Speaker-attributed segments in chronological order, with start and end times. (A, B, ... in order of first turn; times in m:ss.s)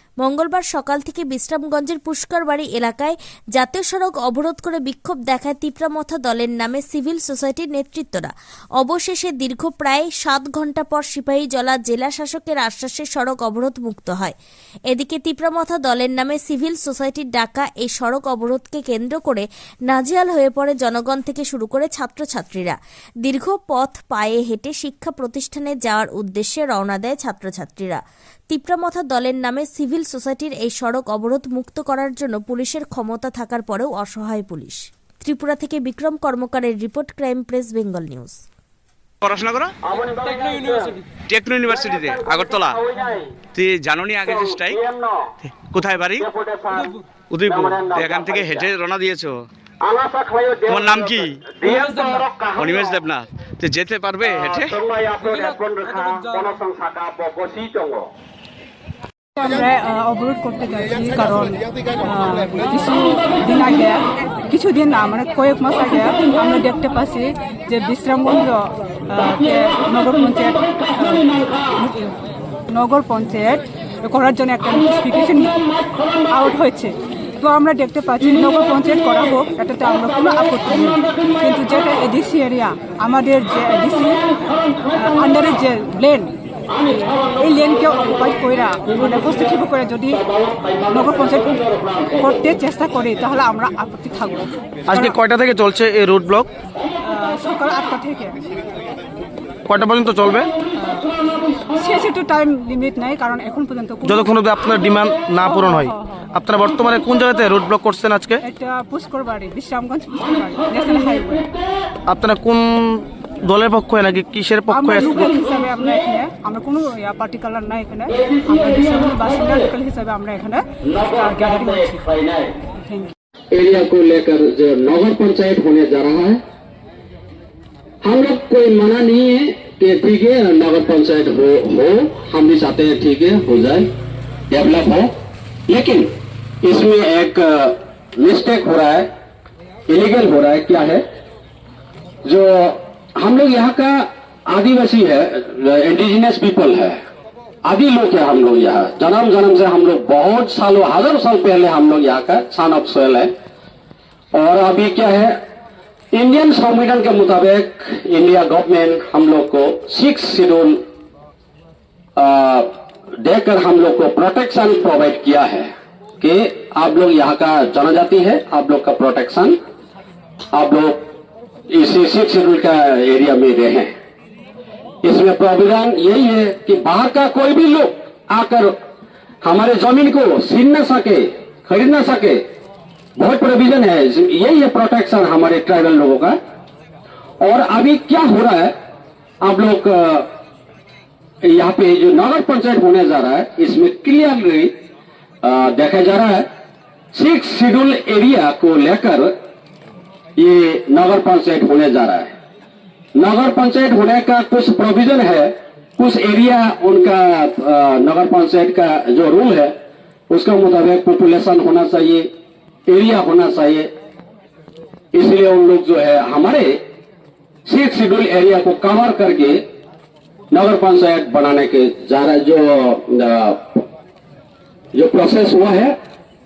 0:00.2-0:14.4 A
0:14.9-0:38.4 A
0:39.2-0:39.8 B
0:39.8-0:41.0 C
0:41.1-0:42.8 B
0:41.7-0:43.4 C
0:43.5-0:44.8 B
0:44.2-0:45.3 C
0:45.4-0:46.3 B
0:46.2-0:48.7 C
0:47.3-0:49.3 B
0:49.8-0:53.0 C
0:50.7-0:54.7 B
0:54.2-0:58.1 C
0:59.4-1:15.7 D
1:16.3-1:35.1 D
1:34.9-1:36.5 E
1:37.0-1:38.4 D
1:39.7-1:40.5 E
1:40.8-1:44.4 D
1:44.0-1:48.4 E
1:45.4-1:46.2 D
1:48.4-1:51.5 D
1:52.1-1:55.4 E
1:54.7-2:03.2 D
2:03.5-2:06.4 C
2:08.0-2:13.9 C
2:14.5-2:15.1 C
2:15.7-2:16.1 C
2:16.6-2:19.1 C
2:19.9-2:21.0 C
2:22.2-2:27.0 C
2:27.6-2:33.3 C
2:34.3-2:35.4 C
2:36.1-2:40.8 C
2:42.2-2:49.6 C
2:50.5-2:51.1 C
2:51.7-2:53.9 C
2:55.0-2:58.8 C
2:59.4-3:02.4 C
3:03.2-3:06.4 C
3:07.4-3:08.7 C
3:09.4-3:10.3 C
3:11.4-3:14.7 C
3:15.4-3:16.5 C
3:17.1-3:19.3 C
3:20.4-3:22.4 C
3:23.2-3:29.8 C
3:30.3-3:32.3 C
3:32.9-3:33.9 C
3:35.1-3:36.8 C
3:37.7-3:39.6 C
3:40.5-3:43.8 C
3:45.0-3:46.0 C